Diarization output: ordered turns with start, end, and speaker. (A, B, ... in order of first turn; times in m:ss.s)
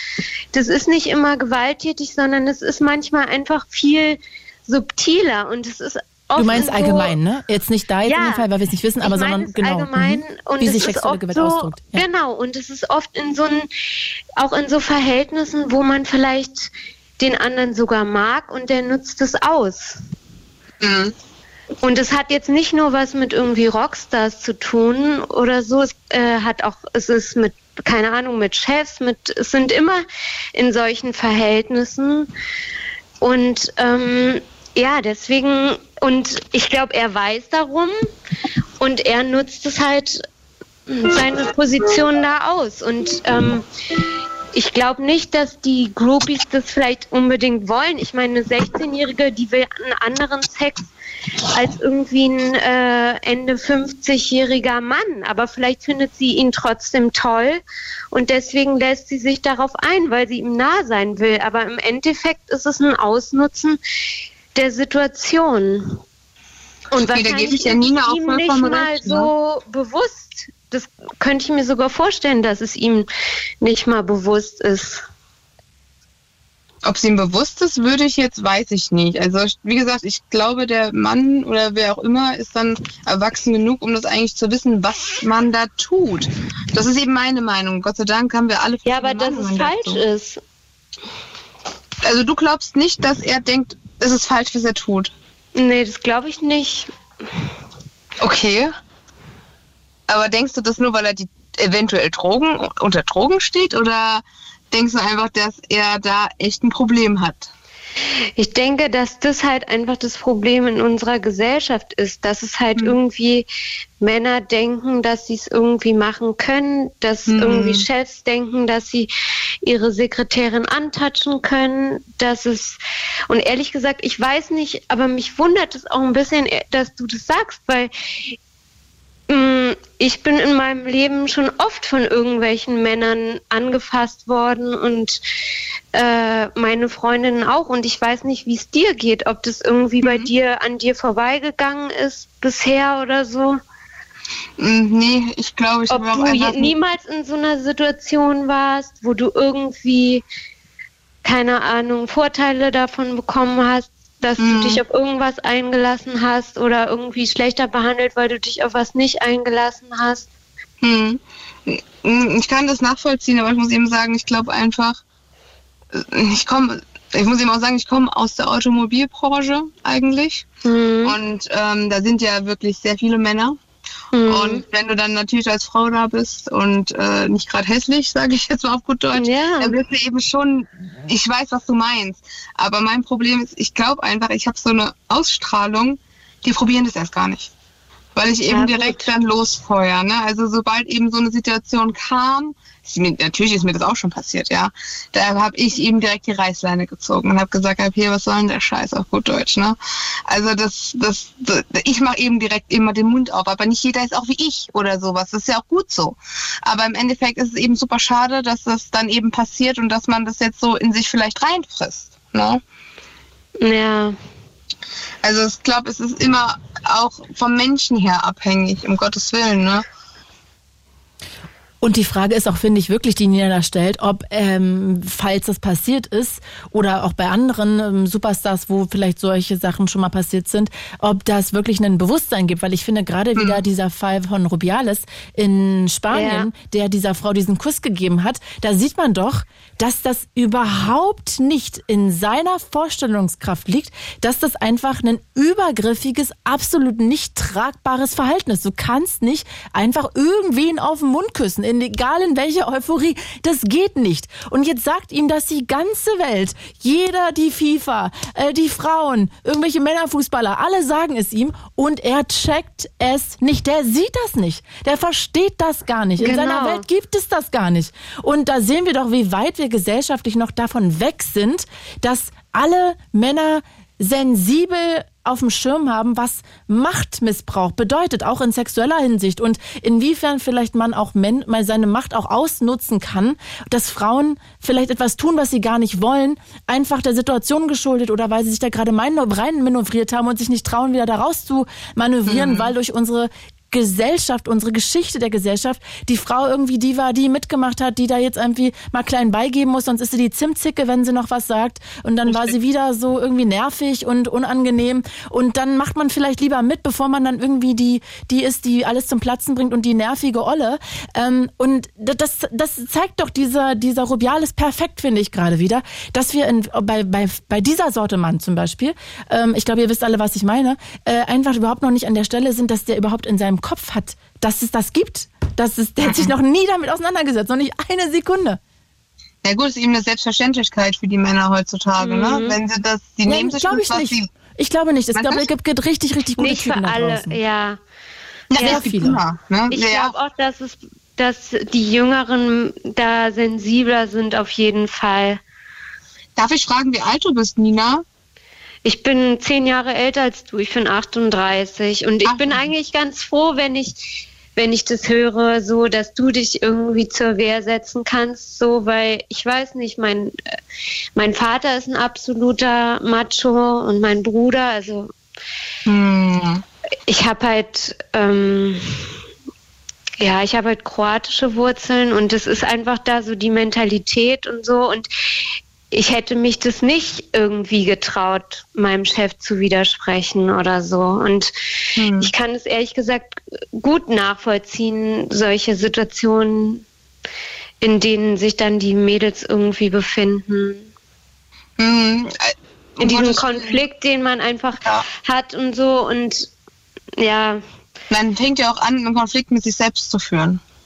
0:00.5-0:07.2 A
0:06.4-0:12.0 B
0:08.0-0:08.5 A
0:09.0-0:13.7 A
0:14.4-0:20.0 A
0:20.8-0:21.1 C
0:21.8-0:30.0 A
0:30.6-0:32.3 A
0:33.2-0:37.9 A
0:38.8-0:40.2 A
0:40.9-0:43.7 A
0:44.5-0:50.9 A
0:51.5-0:57.6 A
0:58.1-1:03.8 A
1:04.6-1:06.0 A
1:06.9-1:13.1 A
1:07.0-1:09.3 C
1:13.6-1:15.0 A
1:16.8-1:30.0 C
1:28.9-1:30.4 A
1:32.0-1:35.1 C
1:35.6-1:36.9 A
1:38.2-1:38.7 C
1:40.1-1:47.5 C
1:48.4-1:53.5 A
1:54.0-1:59.1 A
1:57.3-1:57.8 C
1:59.6-2:02.8 A
2:03.3-2:08.4 A
2:09.3-2:15.2 A
2:15.9-2:23.6 A
2:20.0-2:20.3 C
2:24.6-2:26.7 C
2:25.9-2:30.2 A
2:31.2-2:40.3 A
2:34.4-2:34.8 C
2:40.8-2:45.0 C
2:45.9-2:50.5 C
2:50.6-2:51.2 A
2:51.0-2:53.6 C
2:54.1-2:54.6 A
2:54.3-3:07.5 C
2:59.1-2:59.8 A
3:08.2-3:32.6 C
3:08.5-3:09.1 A
3:33.6-3:34.2 A
3:35.2-3:39.8 C
3:41.8-5:28.6 B
3:53.4-3:53.6 C
3:56.1-3:56.5 A
4:26.2-4:26.8 A
4:52.3-4:52.7 C
5:02.3-5:02.5 C
5:29.4-5:34.3 C
5:32.0-5:32.6 A
5:33.2-5:37.4 B
5:35.1-5:35.4 C
5:36.4-5:37.8 A
5:38.5-5:40.1 C
5:38.5-5:39.0 A
5:38.6-5:39.2 B
5:39.7-5:45.4 A
5:46.4-5:48.0 C
5:48.8-6:00.3 A
5:52.2-5:52.7 C
6:01.2-6:05.1 A
6:05.9-6:06.6 C
6:07.1-6:09.0 A
6:10.2-6:15.1 A
6:15.9-6:26.8 A
6:22.0-6:22.3 C
6:27.8-6:30.9 A
6:31.8-6:33.8 C
6:33.0-6:36.5 A
6:37.2-6:37.6 A
6:38.1-6:40.6 C